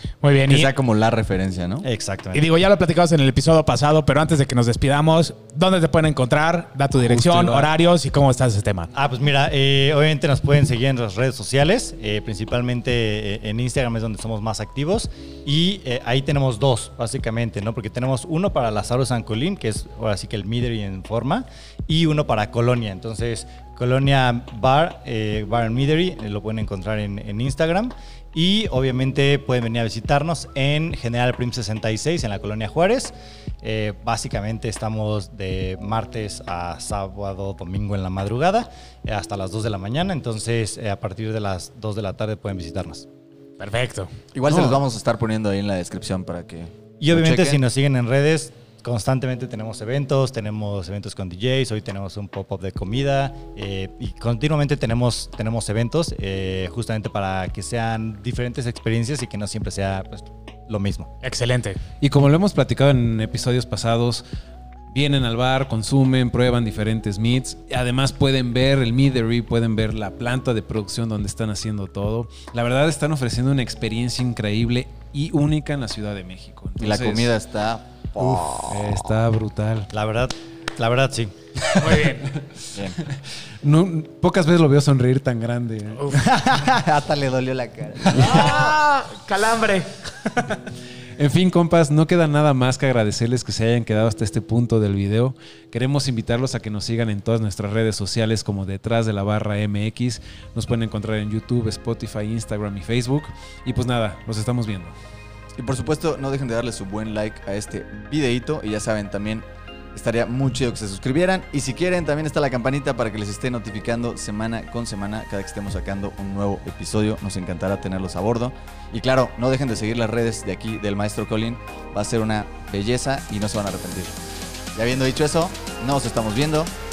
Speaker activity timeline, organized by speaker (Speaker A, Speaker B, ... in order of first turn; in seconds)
Speaker A: 0.2-0.7, 2.3-8.9, 43.6-44.1, 61.2-61.8, 81.8-82.3, 88.1-90.5
Speaker B: 0.5-1.9, 44.3-47.6, 76.8-79.0, 82.7-83.0, 86.2-88.7, 105.6-124.2, 124.7-126.7
Speaker C: 1.8-2.5, 8.9-43.1, 47.0-61.1, 78.2-78.5, 79.9-81.3
Speaker D: 44.5-44.8, 62.0-64.2, 64.9-77.3, 78.7-79.9, 83.6-86.2, 91.2-105.0